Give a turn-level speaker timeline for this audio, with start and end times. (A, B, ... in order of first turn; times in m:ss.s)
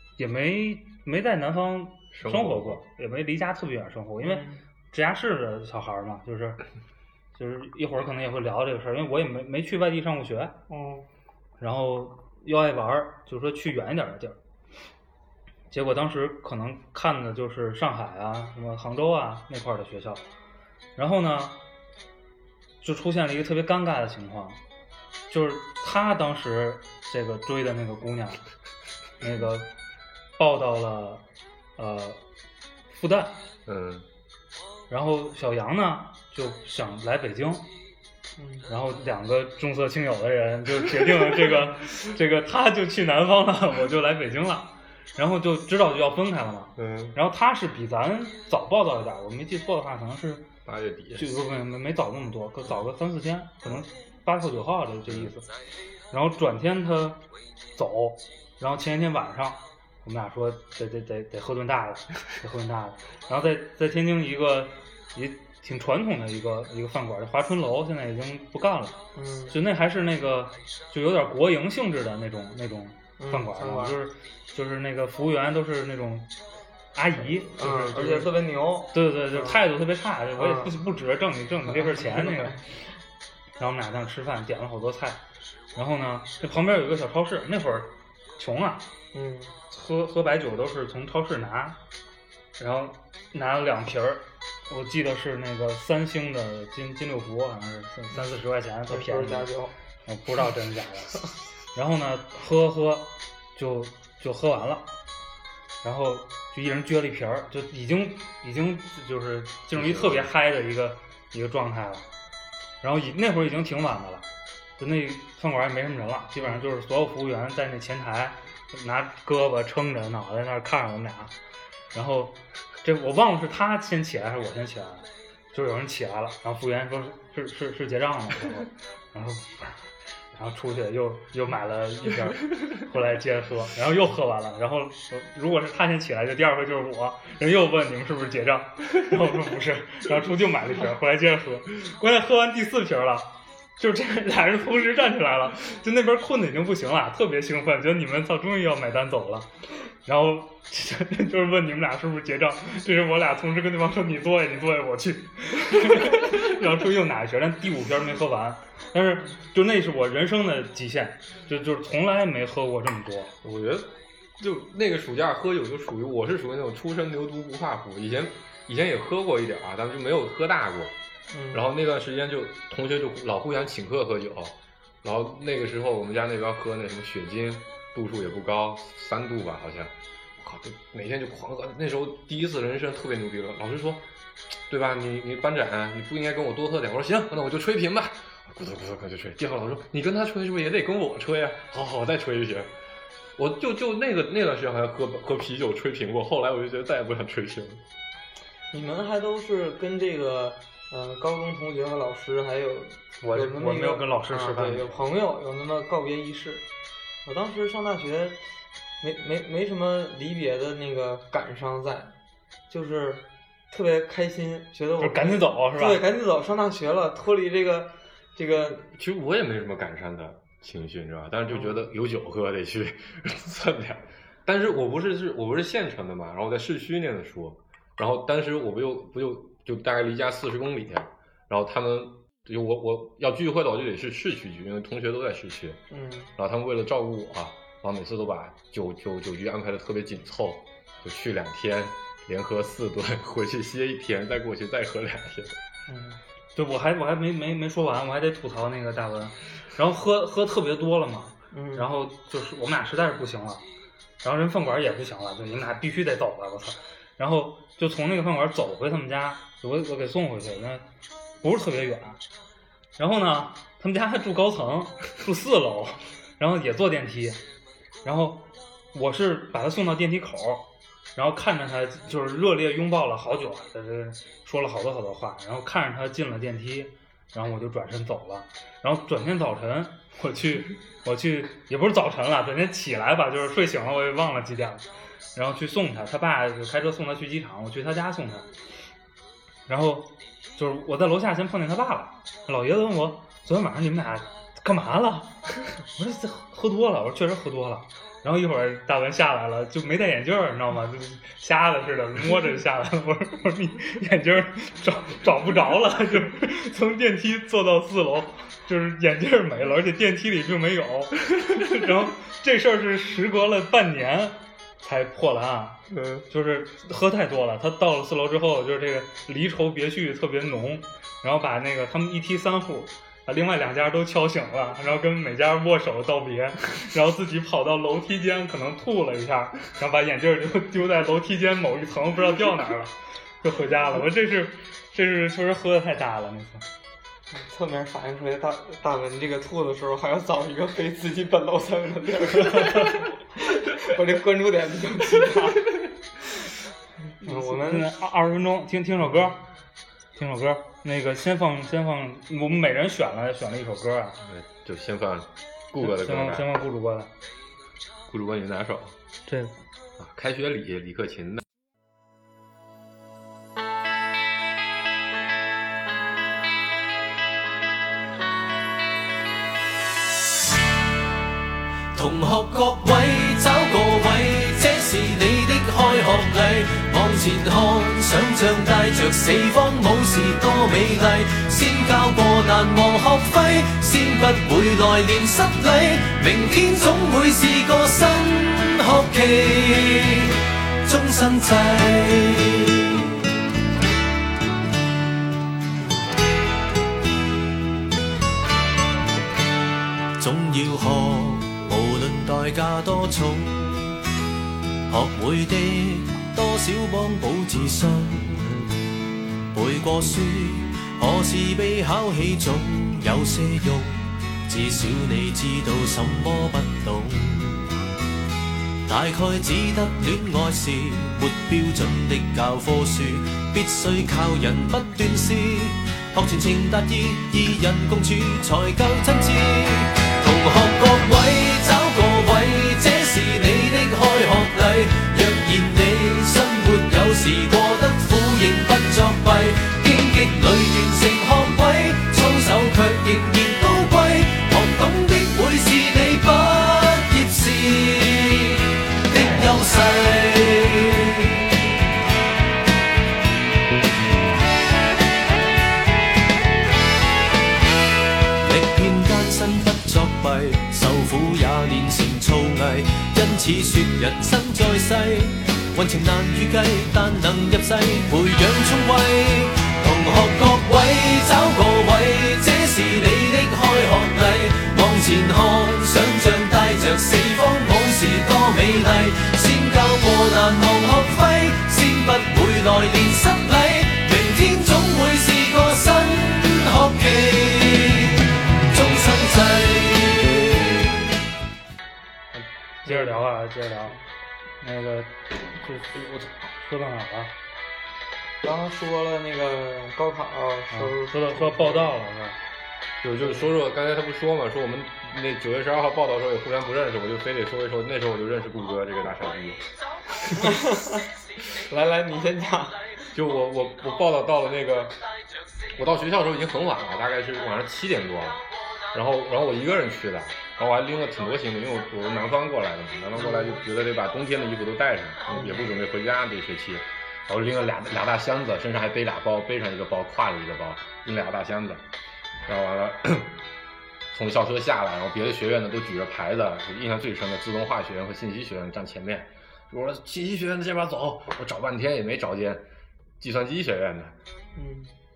0:00.2-0:06.6 A
0:02.1-0:02.8 B
0:04.2-0:04.6 C
0:07.4-0:10.6 A
0:10.7-0:11.1 C
0:11.6-0:14.4 A
0:15.7-0:20.2 A
0:21.0-0:21.6 A
0:22.8-0:24.6 A
0:25.3-0:28.4 A
0:29.2-0:29.7 A
0:30.4-0:31.2 A
0:31.8-0:32.2 A
0:32.9-0:33.4 A
0:33.7-0:34.1 B
0:34.9-0:37.7 A
0:38.4-0:38.7 C
0:38.7-0:50.5 A
0:46.8-0:47.2 B
0:50.6-0:51.3 B
0:51.2-0:55.4 A
0:56.1-0:57.2 A
0:57.8-1:09.0 A
1:09.2-1:09.6 C
1:09.5-1:16.3 A
1:13.2-1:14.0 C
1:16.9-1:18.3 A
1:17.4-1:19.6 C
1:18.9-1:22.6 A
1:20.4-1:20.8 C
1:21.7-1:22.6 C
1:23.6-1:25.2 A
1:25.8-1:28.9 A
1:29.1-1:29.6 C
1:29.7-1:31.8 A
1:32.6-1:39.5 A
1:38.9-1:39.7 C
1:40.1-1:44.9 A
1:45.8-1:52.1 A
1:49.7-1:50.3 B
1:52.8-1:54.3 A
1:54.8-2:01.3 A
2:01.9-2:09.8 A
2:10.3-2:29.5 A
2:30.0-2:43.3 A
2:43.4-2:50.9 B
2:51.3-2:51.7 C
2:51.5-3:04.1 B
3:04.7-3:12.7 B
3:13.4-3:17.8 B
3:18.7-3:26.6 C
3:23.2-3:25.0 A
3:27.2-3:28.4 C
3:29.0-3:32.1 C
3:32.7-3:38.9 C
3:35.0-3:36.0 A
3:38.9-3:55.8 B
3:41.5-3:41.8 C
3:55.9-3:56.3 C
3:56.4-4:05.6 B
4:05.9-4:06.2 C
4:06.6-4:13.6 A
4:11.5-4:11.9 C
4:14.2-4:20.8 A
4:21.4-4:22.2 A
4:23.0-4:27.4 A
4:28.0-4:48.5 A
4:49.7-5:36.6 A
5:15.9-5:16.2 B
5:37.3-5:45.8 C
5:47.2-5:47.9 C
5:47.2-5:49.4 A
5:50.2-5:54.2 A
5:54.2-5:56.5 B
5:55.8-5:57.1 A
5:58.1-5:59.0 B
5:59.3-5:59.5 A
6:00.0-6:01.4 B
6:11.9-6:33.1 D
6:40.2-6:44.0 D
6:44.9-6:48.8 D
6:49.5-6:57.7 D
6:58.9-7:31.4 D
7:38.4-8:10.7 D
8:12.4-8:14.0 A
8:12.9-8:13.2 C
8:14.6-8:17.3 A
8:18.4-8:22.0 C
8:20.7-8:22.4 A
8:23.0-8:29.6 B
8:30.4-8:31.1 C
8:31.7-8:32.8 C
8:33.1-8:35.0 B
8:35.8-8:51.8 B
8:43.2-8:43.6 C
8:45.3-8:45.8 C
8:52.5-8:53.3 B
8:54.1-9:02.6 B
9:03.2-9:04.2 B
9:04.6-9:04.9 C